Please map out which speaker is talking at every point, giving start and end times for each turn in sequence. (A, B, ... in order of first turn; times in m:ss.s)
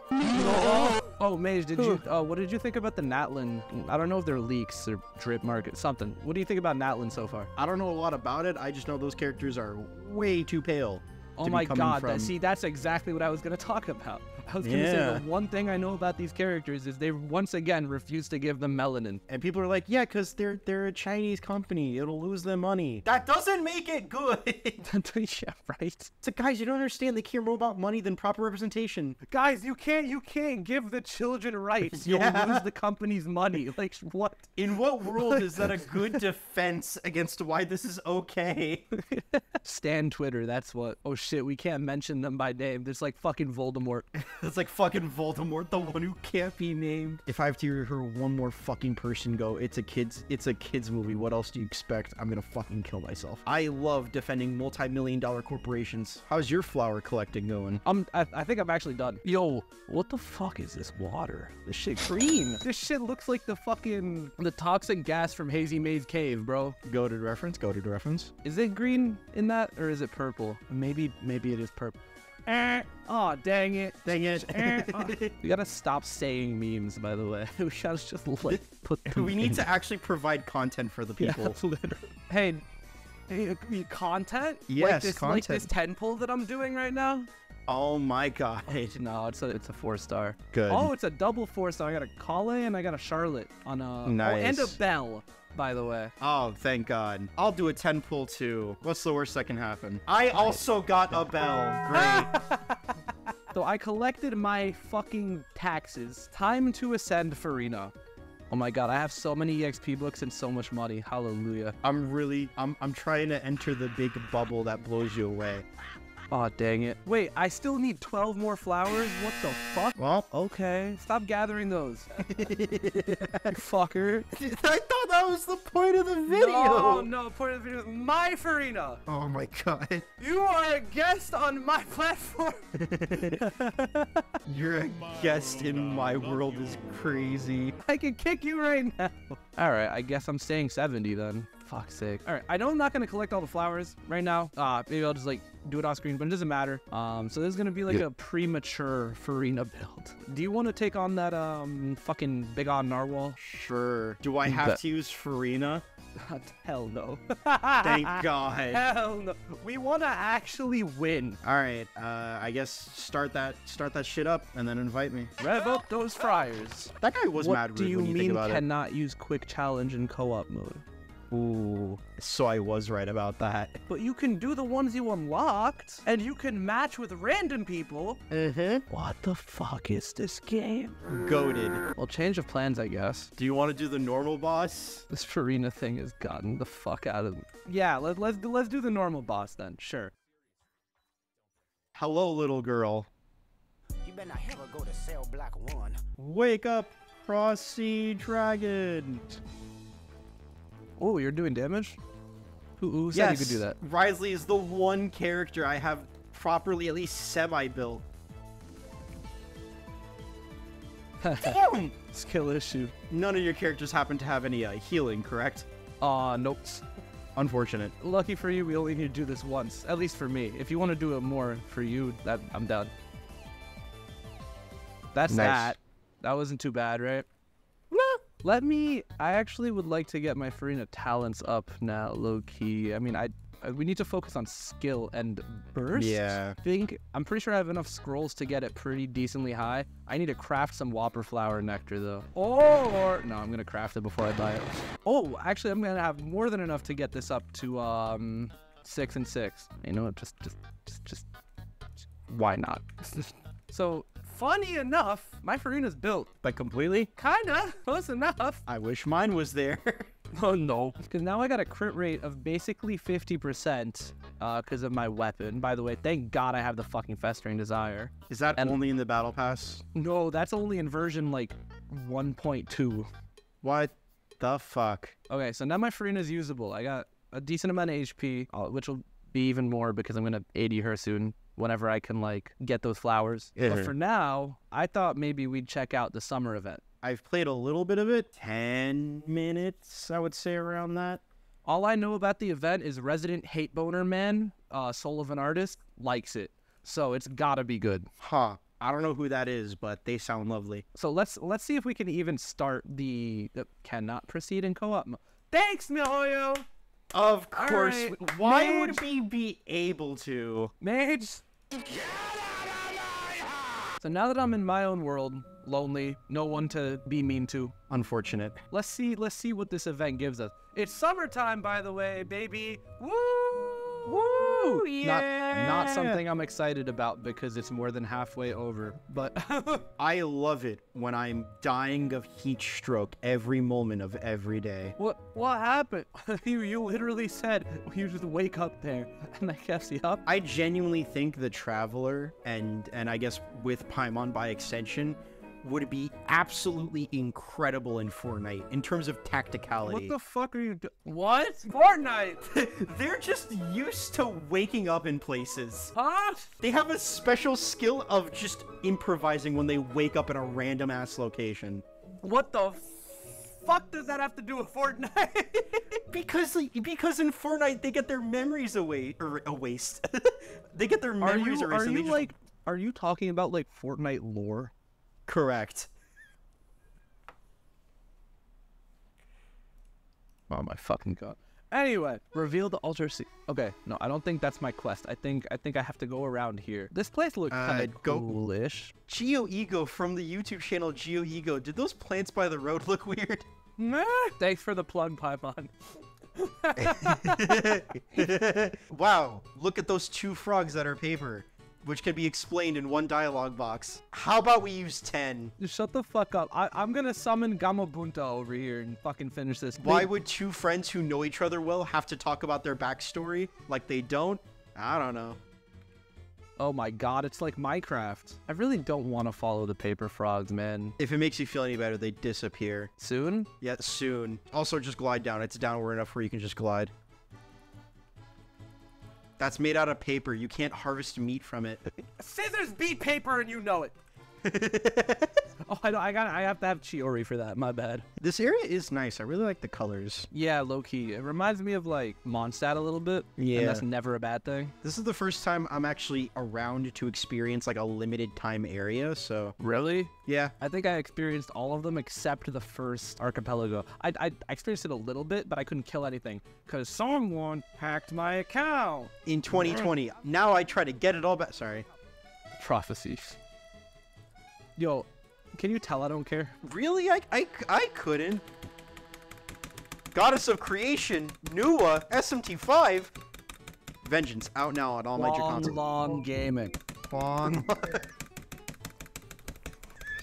0:00.3-0:07.5 A
0:01.8-0:02.0 B
0:07.6-0:12.3 B
0:11.4-0:19.2 A
0:14.6-0:15.2 B
0:19.3-0:24.8 B
0:24.8-0:26.1 A
0:26.2-0:29.2 B
0:29.3-0:35.9 A
0:31.9-0:32.7 B
0:34.6-0:38.9 B
0:38.9-0:44.1 A
0:44.1-0:57.8 B
0:57.8-1:06.8 A
1:06.8-1:08.3 B
1:08.4-1:19.6 A
1:14.0-1:15.3 B
1:18.5-1:21.6 B
1:21.2-1:22.6 A
1:23.3-1:27.3 A
1:24.7-1:25.7 B
1:27.7-1:29.0 B
1:28.9-1:36.1 A
1:30.5-1:30.9 B
1:34.0-1:34.8 B
1:36.2-1:42.3 B
1:41.9-1:42.8 A
1:43.5-1:47.9 A
1:48.5-1:51.8 A
1:51.8-1:55.6 B
1:56.3-2:02.1 A
2:00.0-2:00.3 B
2:02.2-2:03.6 B
2:03.5-2:04.3 A
2:04.3-2:07.1 B
2:06.3-2:09.0 A
2:09.1-2:10.1 B
2:10.2-2:14.4 A
2:12.7-2:13.5 B
2:14.4-2:17.8 B
2:17.8-2:33.4 A
2:33.4-2:35.8 B
2:34.4-2:34.8 A
2:36.2-2:41.4 A
2:37.8-2:38.8 B
2:41.4-2:45.3 B
2:45.4-2:50.8 A
2:47.0-2:48.6 B
2:51.3-2:53.8 B
2:53.9-2:58.2 A
2:58.3-2:58.8 B
2:58.9-3:01.0 A
3:01.1-3:01.8 B
3:01.9-3:03.3 A
3:03.4-3:05.1 B
3:05.1-3:10.1 A
3:11.9-3:13.1 B
3:14.0-3:16.0 C
3:16.2-3:19.4 B
3:21.0-3:22.0 A
3:22.8-3:23.8 A
3:23.1-3:28.0 B
3:31.2-3:32.9 A
3:31.4-3:31.9 B
3:33.1-3:35.7 B
3:36.0-3:36.8 A
3:37.4-3:37.9 B
3:38.0-3:42.9 A
3:45.1-3:47.2 A
3:45.3-3:45.7 B
3:47.9-3:48.2 B
3:48.4-4:11.3 A
3:55.9-3:56.6 B
4:12.3-4:16.3 A
4:16.4-4:17.1 B
4:17.2-4:18.6 A
4:18.7-4:20.1 B
4:20.3-4:28.8 A
4:28.3-4:29.8 B
4:29.9-4:33.1 A
4:33.6-4:35.2 B
4:35.3-4:46.8 A
4:43.6-4:43.9 B
4:47.0-4:51.2 B
4:51.6-4:58.1 A
4:58.2-5:00.8 B
5:00.9-5:06.6 A
5:07.1-5:10.7 B
5:07.6-5:09.0 A
5:10.8-5:11.4 A
5:14.0-5:17.7 A
5:17.9-5:18.6 B
5:18.7-5:29.9 A
5:24.1-5:26.2 B
5:30.0-5:34.9 B
5:35.0-5:40.2 A
5:40.2-5:50.1 B
5:49.8-5:52.4 A
5:52.4-5:55.9 B
5:55.9-5:56.5 A
5:56.6-6:01.8 B
6:02.2-6:06.0 A
6:06.1-6:12.3 B
6:11.2-6:14.7 A
6:15.3-6:15.9 B
6:20.5-6:28.9 A
6:27.5-6:28.4 B
6:29.1-6:33.5 B
6:33.8-6:35.7 A
6:36.3-6:38.4 A
6:36.8-6:45.5 B
6:45.6-6:50.1 A
6:49.8-6:55.4 B
6:56.6-7:01.0 A
7:01.0-7:02.9 B
7:03.0-7:03.5 A
7:03.6-7:06.9 B
7:09.4-7:11.8 B
7:12.0-7:14.0 A
7:14.4-7:15.4 B
7:15.7-7:18.1 A
7:18.2-7:20.3 B
7:20.3-7:24.7 A
7:23.4-7:23.8 B
7:24.8-7:29.6 B
7:29.6-7:39.8 A
7:30.2-7:30.5 B
7:39.2-7:41.8 B
7:42.6-7:43.4 A
7:44.8-7:46.6 A
7:46.6-7:48.4 B
7:50.1-7:53.1 B
7:54.0-7:56.0 B
7:55.1-7:56.8 A
7:57.0-7:58.0 B